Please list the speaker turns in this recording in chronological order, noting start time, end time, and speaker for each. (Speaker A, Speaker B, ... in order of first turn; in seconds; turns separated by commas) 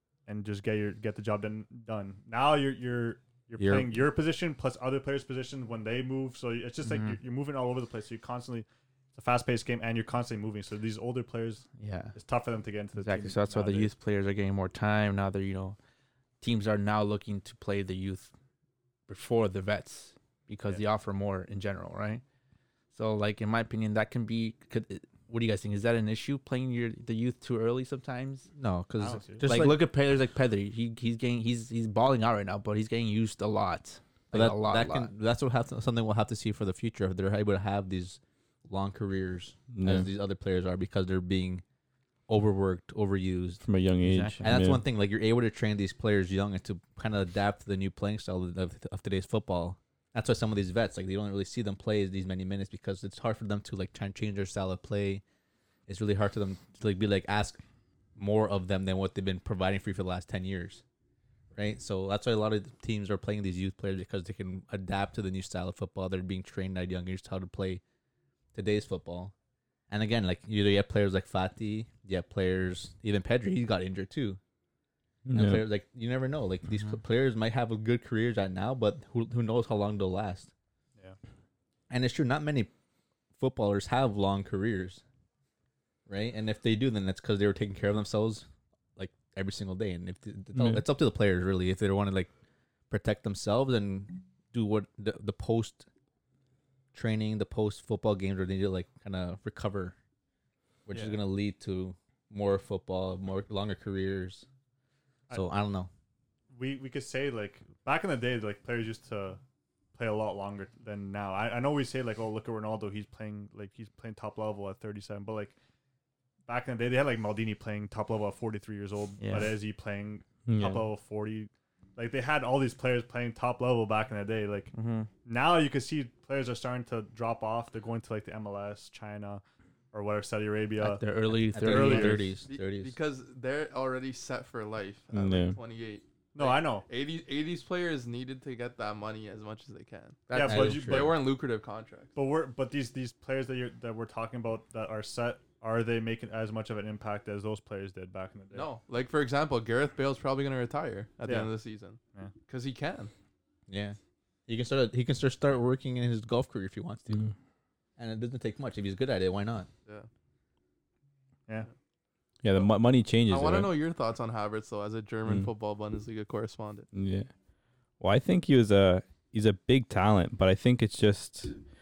Speaker A: 0.3-13.9, Speaker B: 3.6-3.9, Speaker C: 6.8-7.2, Speaker C: 11.8-12.2, Speaker C: 13.0-15.8, Speaker C: 16.4-18.3, Speaker C: 19.1-22.2, Speaker C: 22.9-28.5, Speaker B: 28.6-29.8, Speaker A: 29.0-29.6, Speaker C: 29.4-35.1, Speaker B: 34.3-41.6, Speaker D: 39.7-40.1, Speaker B: 42.3-43.6, Speaker D: 43.6-44.8, Speaker C: 44.0-44.4, Speaker B: 44.4-55.2, Speaker B: 55.9-57.6, Speaker B: 58.2-60.8, Speaker B: 61.5-67.8, Speaker B: 68.5-69.3, Speaker B: 69.9-74.4, Speaker D: 75.3-75.6, Speaker B: 75.3-80.5, Speaker B: 81.9-82.7, Speaker B: 83.4-85.0, Speaker B: 86.1-92.3, Speaker D: 90.5-90.8, Speaker B: 92.9-95.8, Speaker B: 96.9-100.0, Speaker B: 100.8-104.5, Speaker A: 100.9-101.2, Speaker B: 105.3-105.9, Speaker A: 106.5-109.4, Speaker A: 109.9-115.5, Speaker A: 116.5-124.7, Speaker C: 119.2-119.6, Speaker D: 120.5-120.8, Speaker C: 124.7-125.1, Speaker A: 125.2-132.2, Speaker C: 130.8-132.4, Speaker B: 131.5-132.9, Speaker E: 132.4-142.1, Speaker D: 135.1-135.6, Speaker A: 136.3-136.8, Speaker C: 140.3-140.8, Speaker A: 140.3-141.2, Speaker B: 140.3-141.1, Speaker A: 142.1-148.7, Speaker E: 148.5-153.1, Speaker A: 151.2-151.5, Speaker B: 153.7-157.2, Speaker B: 158.0-159.7, Speaker D: 162.4-163.7, Speaker E: 163.3-166.9, Speaker D: 166.9-167.3, Speaker D: 168.0-171.6